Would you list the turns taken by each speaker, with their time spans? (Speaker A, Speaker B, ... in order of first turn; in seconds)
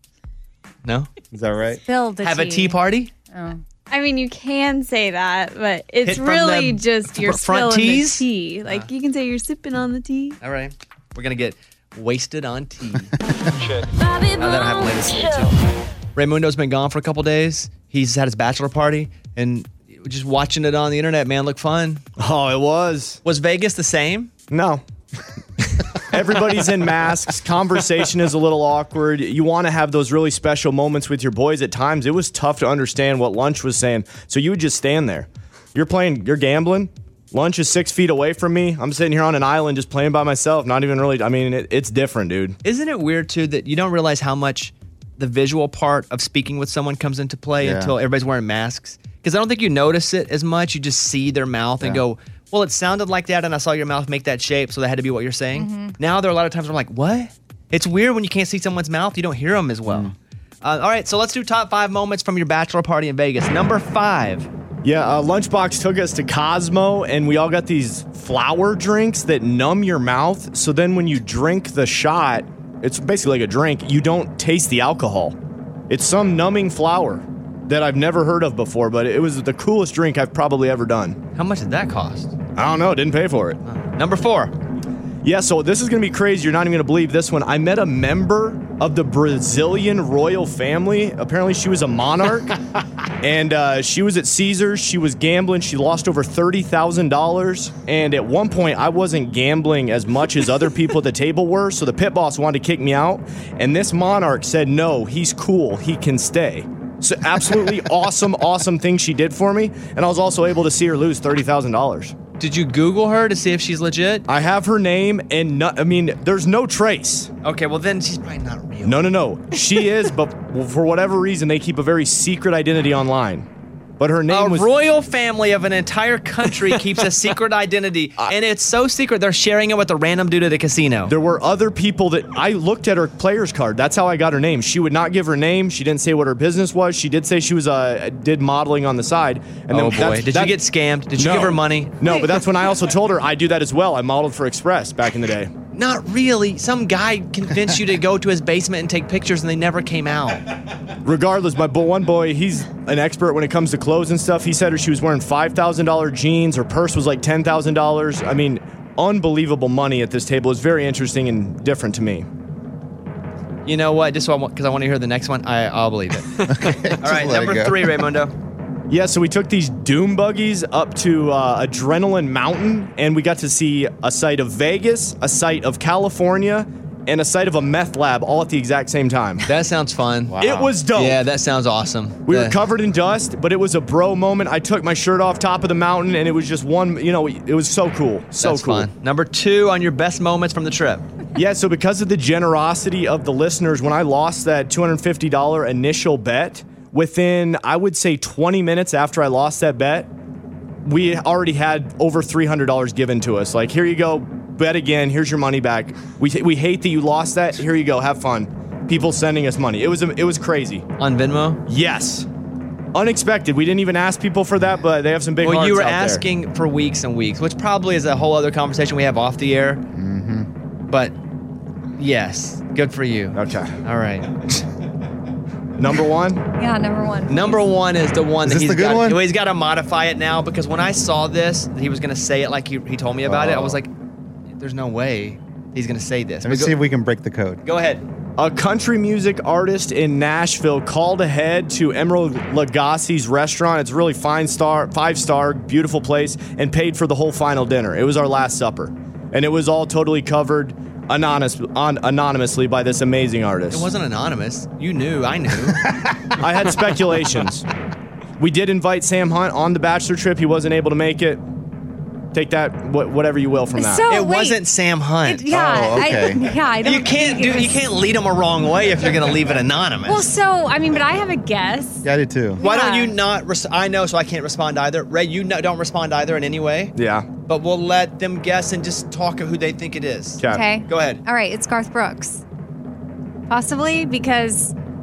Speaker A: 0.8-1.1, 2.2-3.1, 6.0-8.9, 10.4-13.2, 14.4-15.6, 16.1-22.0, 23.2-24.3, 42.6-64.5, 81.3-82.3, 83.7-84.5, 112.4-114.2, 117.4-119.1, 124.3-131.1, 139.7-142.0, 145.7-150.4, 163.6-168.3, 179.4-182.6, 188.4-191.1, 211.0-211.6, 215.4-219.8, 220.9-221.1, 222.0-224.4, 227.3-233.9, 234.6-236.8, 237.6-238.0, 253.7-255.9, 264.1-266.2, 266.8-270.3, 272.6-276.9, 277.4-281.2
Speaker B: 1.3-1.8, 47.6-47.9, 59.9-60.1, 166.4-167.9, 180.3-180.7, 219.9-220.5, 228.4-229.2, 236.4-237.6, 265.5-266.5, 272.0-272.6
Speaker C: 1.8-2.8, 3.3-3.6, 55.5-56.0, 226.6-227.6, 263.8-264.6, 265.2-267.8, 270.1-272.1, 272.6-273.1, 280.4-282.4, 283.5-284.7
Speaker D: 3.9-10.4, 14.0-15.5
Speaker E: 22.2-23.2, 24.5-24.8, 25.8-42.6, 64.8-75.4, 75.9-81.2, 82.5-83.6, 85.2-92.6, 93.2-112.1, 114.3-117.3, 118.8-123.5, 124.0-124.7, 131.1-140.6, 141.2-145.5, 151.0-162.3, 168.9-179.5, 180.4-181.2, 182.3-188.9, 191.3-200.1, 200.8-210.8, 211.7-212.3, 212.9-216.2, 223.3-223.8, 225.8-226.4, 233.3-233.8, 238.4-253.9, 256.4-257.7, 258.4-261.4, 262.3-264.1, 276.9-277.3